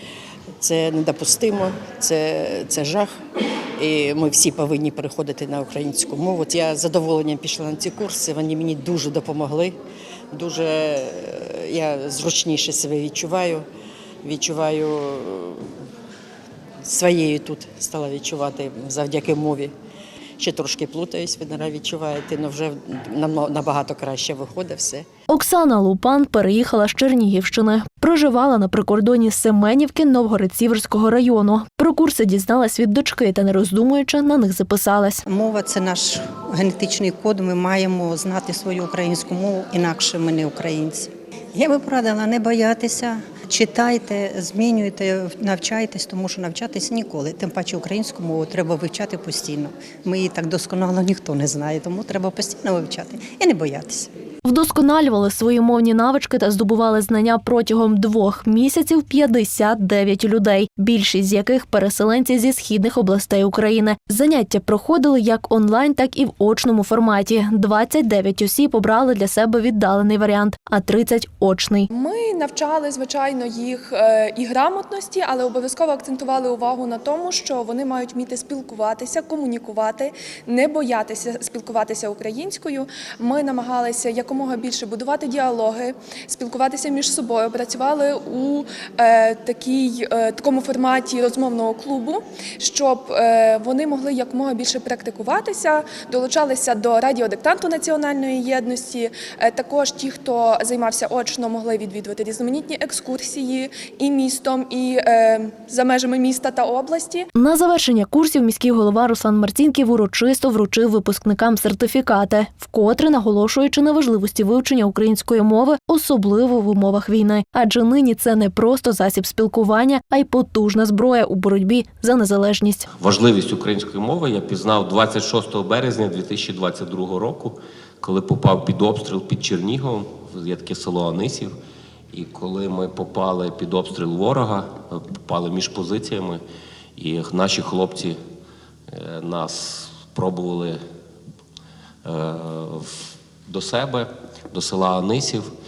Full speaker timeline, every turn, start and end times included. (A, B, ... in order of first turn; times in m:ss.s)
0:00.6-0:03.1 A
0:03.8-0:09.8 A
0:10.3-0:13.6 A
0:14.2-0:15.7 A
0:16.8-0:19.7 A
0:20.4-0:25.0 A
0:25.3-0:35.2 B
0:35.2-0:54.1 C
0:54.4-1:11.9 B
1:11.9-1:47.3 D
1:47.3-2:02.9 B
2:03.0-2:11.5 E
2:12.1-2:16.4 E
2:17.0-2:18.2 E
2:18.9-2:20.8 E
2:22.0-2:25.4 E